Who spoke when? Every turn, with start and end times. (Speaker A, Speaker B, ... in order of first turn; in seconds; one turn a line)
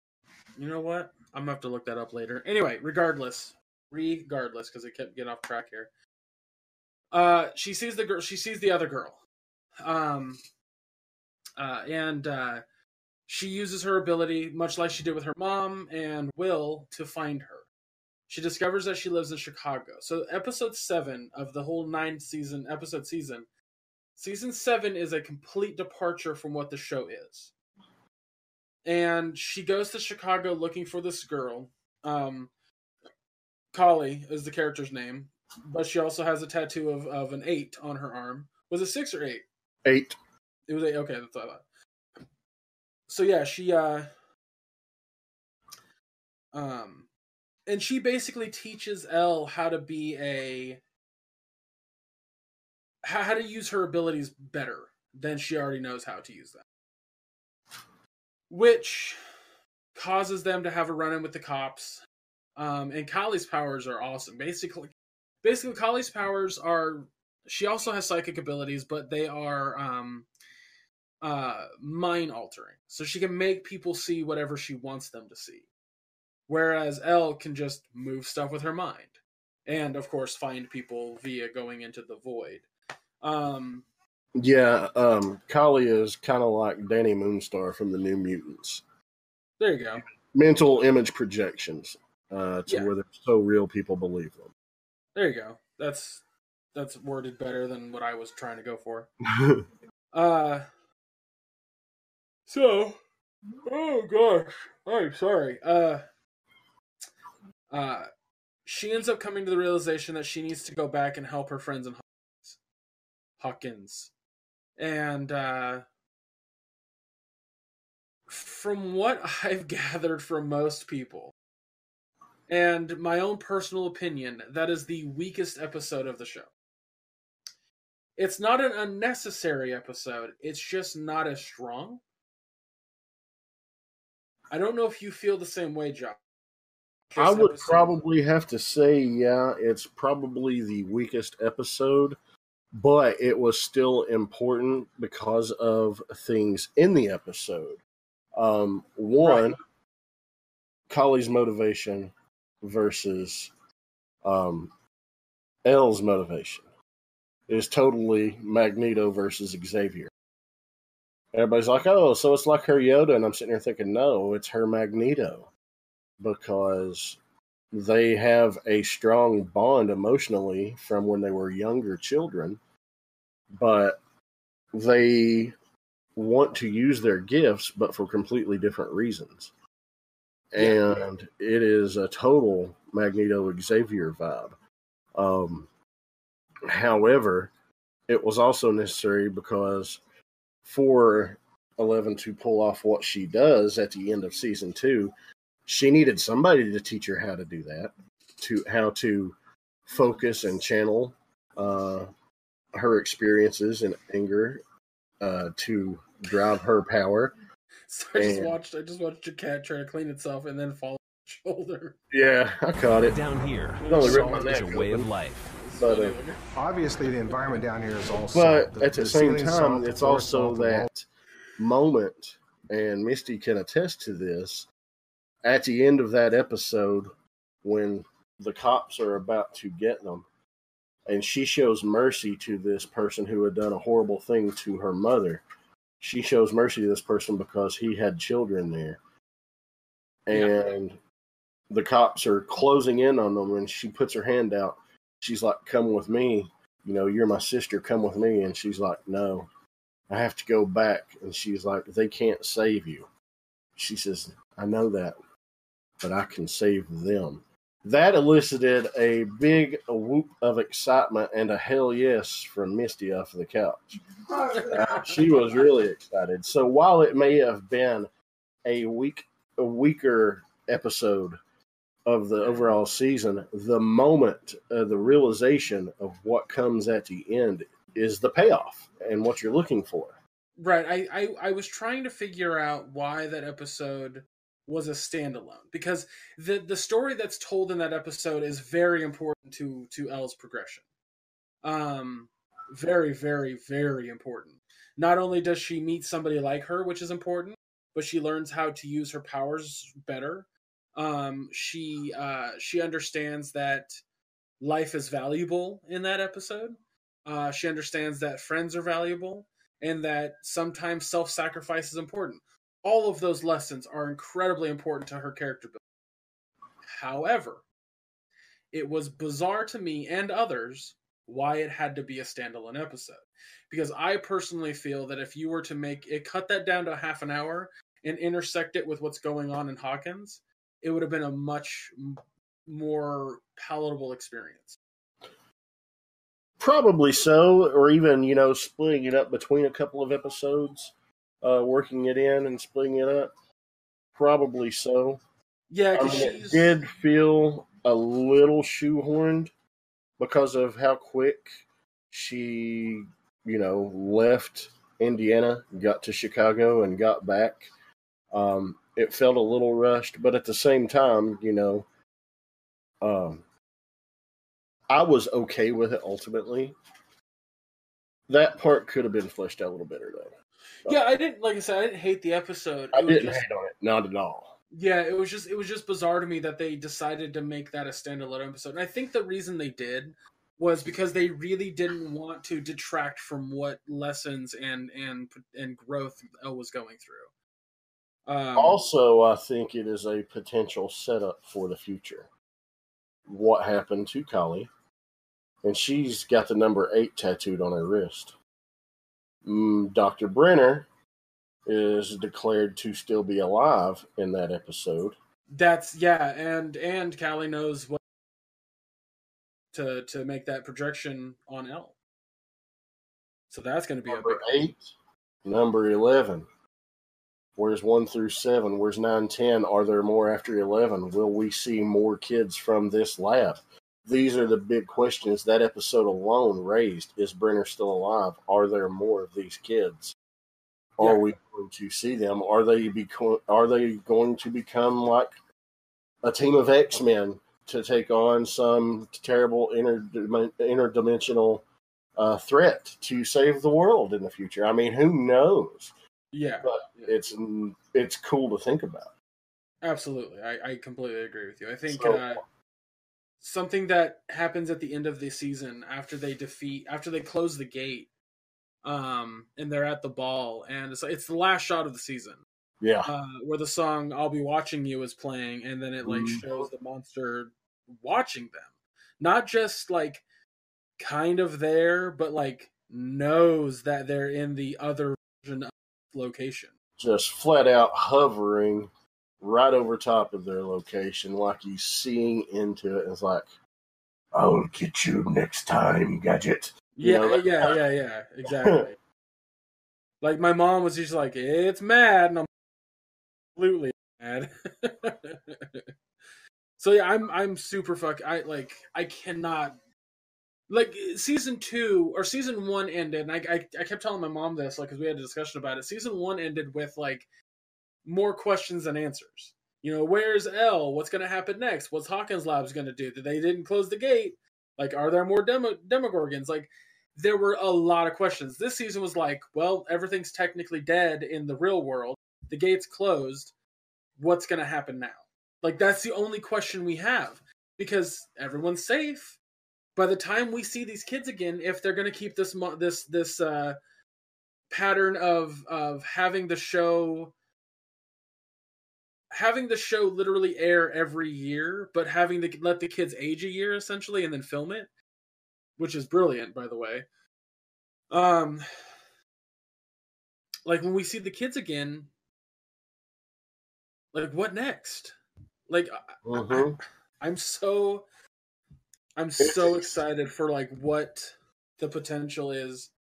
Speaker A: 0.6-5.9
Speaker A: 7.1-9.2
Speaker A: 9.8-10.4
Speaker A: 11.6-12.6
Speaker A: 13.3-17.7
Speaker A: 18.3-23.4
Speaker A: 24.2-27.5
Speaker A: 28.8-32.5
Speaker A: 33.7-39.4
Speaker B: 39.8-40.2
Speaker A: 40.7-41.6
Speaker A: 43.1-44.1
Speaker A: 46.5-47.1
Speaker A: 47.6-50.8
Speaker A: 53.0-56.6
Speaker A: 58.5-59.2
Speaker A: 59.9-62.0
Speaker A: 62.5-70.3
Speaker A: 71.2-75.7
Speaker A: 76.5-82.6
Speaker A: 83.2-83.8
Speaker B: 84.3-88.8
Speaker A: 89.6-90.0
Speaker B: 90.1-94.5
Speaker A: 95.1-96.2
Speaker A: 96.7-99.1
Speaker B: 99.3-99.6
Speaker A: 100.1-100.6
Speaker A: 102.5-103.0
Speaker A: 103.6-106.0
Speaker A: 107.7-108.1
Speaker A: 108.6-112.6
Speaker A: 113.4-114.1
Speaker A: 114.8-115.8
Speaker A: 118.3-121.3
Speaker A: 122.5-126.5
Speaker A: 128.2-132.0
Speaker A: 134.5-136.2
Speaker A: 137.1-137.9
Speaker B: 137.2-142.2
Speaker B: 142.7-147.8
Speaker B: 148.3-149.6
Speaker B: 150.9-153.5
Speaker B: 154.2-154.7
Speaker B: 155.6-156.7
Speaker B: 157.5-160.1
Speaker B: 161.3-165.5
Speaker B: 166.2-167.2
Speaker B: 167.7-172.6
Speaker B: 173.5-174.0
Speaker B: 174.7-175.5
Speaker B: 176.2-179.5
Speaker B: 180.5-184.5
Speaker B: 185.1-185.7
Speaker B: 186.7-187.5
Speaker B: 188.1-190.0
Speaker B: 190.6-195.1
Speaker B: 195.7-199.3
Speaker B: 199.9-202.1
Speaker B: 202.7-204.6
Speaker B: 205.2-207.4
Speaker A: 207.9-211.9
Speaker B: 208.1-208.5
Speaker B: 212.1-213.2
Speaker C: 213.1-215.6
Speaker A: 213.8-214.8
Speaker B: 213.9-215.1
Speaker A: 215.5-216.4
Speaker B: 215.7-216.2
Speaker D: 216.6-220.9
Speaker B: 218.3-221.1
Speaker B: 221.6-224.7
Speaker B: 225.4-227.1
Speaker B: 227.6-230.3
Speaker B: 231.1-235.4
Speaker B: 236.0-239.0
Speaker B: 240.3-241.0
Speaker B: 241.7-249.5
Speaker B: 250.1-253.1
Speaker B: 253.8-255.2
Speaker B: 256.0-264.0
Speaker A: 264.5-265.6
Speaker B: 264.5-268.1
Speaker B: 268.6-271.4
Speaker B: 272.0-280.1
Speaker A: 280.6-290.8
Speaker A: 291.6-304.0
Speaker A: 304.6-315.8
Speaker A: 316.9-317.6
Speaker A: 318.7-334.8
Speaker B: 336.6-343.3
Speaker B: 344.1-345.2
Speaker A: 345.7-346.8
Speaker B: 345.9-349.5
Speaker B: 350.2-357.7
Speaker B: 358.3-361.9
Speaker B: 363.0-363.4
Speaker B: 364.9-366.7
Speaker B: 368.3-370.3
Speaker A: 370.8-373.4
Speaker B: 372.9-374.5
Speaker A: 374.7-387.3
Speaker A: 388.3-388.8
Speaker B: 388.5-392.3
Speaker B: 393.3-394.7
Speaker B: 395.6-398.4
Speaker B: 399.4-400.9
Speaker B: 401.6-405.1
Speaker A: 405.5-408.0
Speaker A: 409.7-411.9
Speaker A: 413.5-414.5
Speaker B: 414.1-416.5
Speaker B: 417.6-430.1
Speaker B: 431.0-435.4
Speaker B: 436.2-441.6
Speaker B: 442.1-445.9
Speaker A: 446.3-447.2
Speaker B: 446.6-449.1
Speaker A: 449.8-452.4
Speaker B: 451.9-452.4
Speaker A: 453.4-458.1
Speaker A: 458.8-462.4
Speaker B: 462.8-463.1
Speaker A: 463.0-470.2
Speaker B: 466.0-466.6
Speaker A: 471.0-476.7
Speaker B: 477.0-483.5
Speaker B: 484.3-487.8
Speaker A: 487.0-488.9
Speaker B: 488.5-488.9
Speaker A: 490.2-492.5
Speaker A: 493.6-495.8
Speaker A: 496.8-499.8
Speaker A: 500.7-507.2
Speaker A: 508.0-523.5
Speaker A: 524.2-529.4
Speaker A: 529.9-533.8
Speaker A: 534.7-537.3
Speaker A: 539.3-544.9
Speaker A: 545.8-547.0
Speaker A: 548.1-548.6
Speaker A: 550.6-552.1
Speaker A: 554.1-555.1
Speaker A: 555.7-558.0
Speaker B: 556.2-556.8
Speaker A: 559.2-562.9
Speaker B: 559.4-560.0